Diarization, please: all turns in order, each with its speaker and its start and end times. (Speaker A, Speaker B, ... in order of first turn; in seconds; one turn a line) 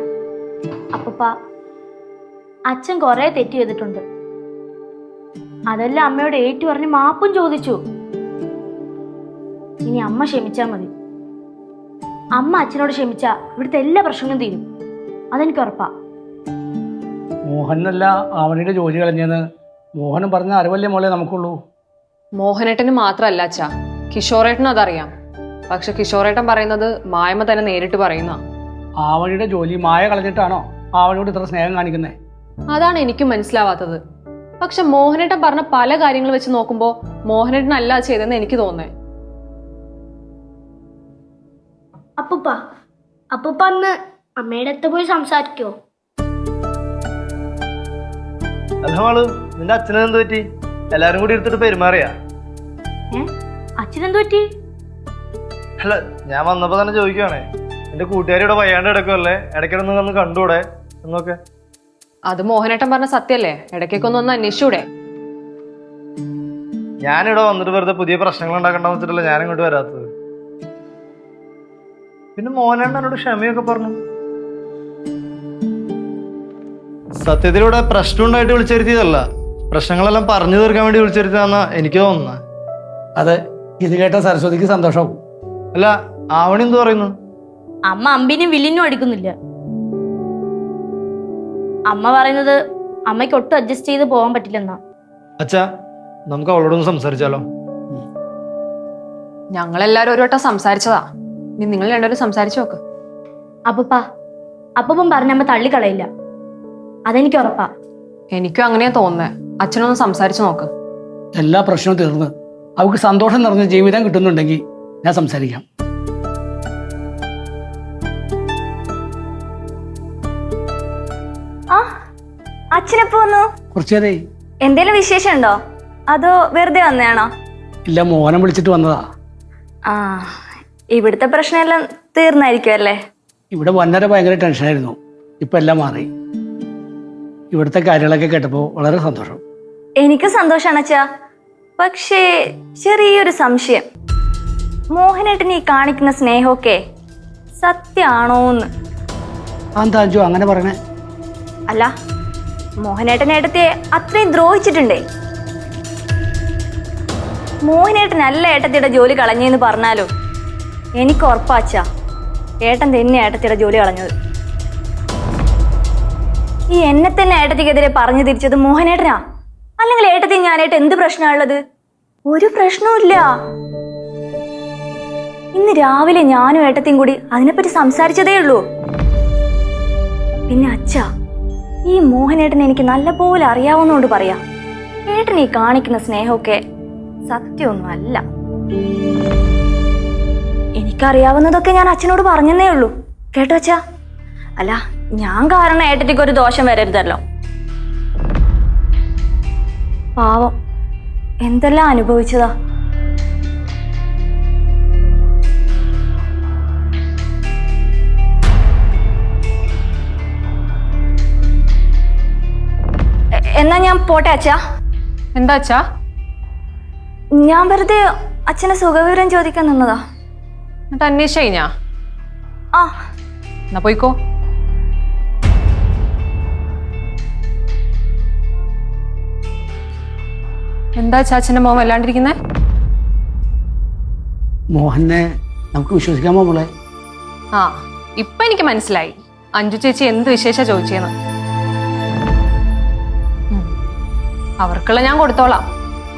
Speaker A: 0.9-1.3
Speaker A: 2.7-4.0
Speaker A: 5.7-7.8
Speaker A: 9.8-10.9
Speaker A: 12.3-14.7
Speaker A: 15.3-15.9
Speaker B: 17.4-19.4
Speaker B: 19.9-21.6
Speaker C: 22.4-25.1
Speaker C: 25.7-28.4
Speaker B: 29.0-32.1
Speaker C: 32.7-34.0
Speaker C: 34.6-38.9
Speaker D: 42.2-42.6
Speaker D: 43.3-45.7
Speaker E: 48.8-52.1
Speaker A: 53.8-54.5
Speaker E: 55.8-61.4
Speaker C: 62.3-64.8
Speaker E: 67.0-70.1
Speaker E: 72.3-73.9
Speaker E: 77.2-82.4
Speaker B: 83.2-85.2
Speaker E: 85.7-87.1
Speaker A: 87.9-89.3
Speaker A: 91.9-94.8
Speaker E: 96.3-97.4
Speaker C: 99.5-101.0
Speaker C: 101.6-102.8
Speaker A: 103.7-104.0
Speaker A: 104.8-106.1
Speaker A: 107.1-107.7
Speaker C: 108.3-110.7
Speaker B: 111.3-115.6
Speaker F: 122.7-123.5
Speaker B: 123.7-124.2
Speaker F: 124.6-125.6
Speaker F: 126.1-127.3
Speaker B: 127.9-129.0
Speaker F: 129.9-130.3
Speaker F: 130.9-133.0
Speaker B: 133.5-136.1
Speaker B: 137.5-139.4
Speaker F: 140.0-141.0
Speaker F: 141.8-142.2
Speaker F: 142.8-143.8
Speaker F: 144.9-146.8
Speaker F: 147.6-148.7
Speaker B: 149.8-150.8
Speaker F: 152.8-155.0
Speaker F: 157.7-160.1
Speaker F: 161.0-161.8
Speaker F: 162.6-164.1
Speaker F: 166.7-169.2
Speaker F: 169.8-171.6
Speaker F: 172.3-173.3
Speaker F: 175.5-178.6
Speaker F: 180.5-181.0
Speaker F: 181.9-184.4
Speaker F: 185.1-186.6
Speaker F: 187.3-188.2
Speaker F: 190.8-193.8
Speaker F: 194.6-197.2
Speaker F: 200.2-200.5
Speaker F: 201.4-202.5
Speaker F: 213.6-214.6
Speaker C: 215.3-215.8
Speaker F: 217.3-220.0
Speaker C: 220.9-221.7
Speaker C: 223.7-224.1
Speaker C: 231.0-232.3
Speaker B: 234.7-236.7
Speaker C: 237.6-241.1
Speaker C: 244.6-245.6